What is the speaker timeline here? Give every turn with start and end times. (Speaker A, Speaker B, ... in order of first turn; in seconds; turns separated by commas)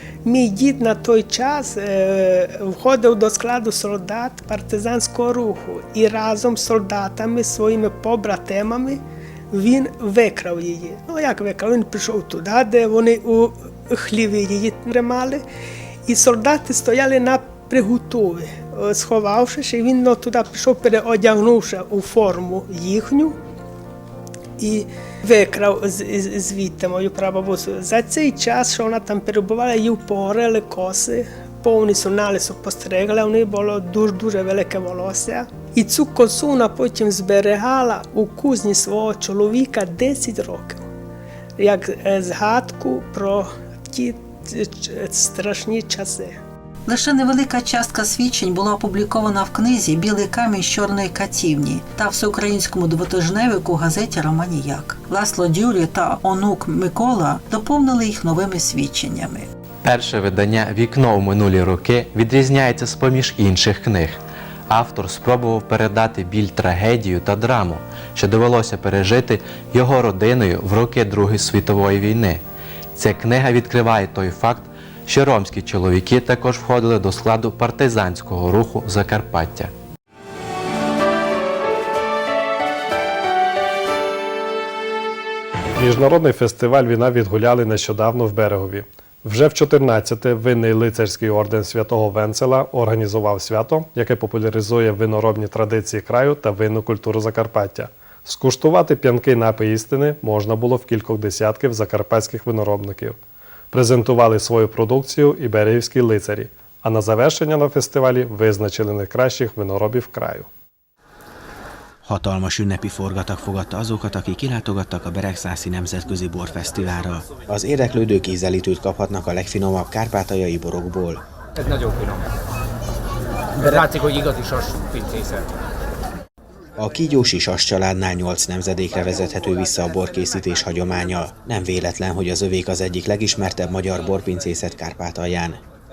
Speaker A: 0.2-15.4, Speaker A: 16.1-23.4, Speaker A: 24.6-40.8, Speaker A: 41.6-46.4, Speaker B: 46.9-59.5, Speaker C: 59.8-72.4, Speaker C: 72.9-79.7, Speaker D: 85.8-103.2, Speaker D: 103.7-110.5, Speaker E: 112.0-121.2, Speaker F: 121.6-122.3, Speaker F: 123.6-125.5, Speaker E: 126.8-135.6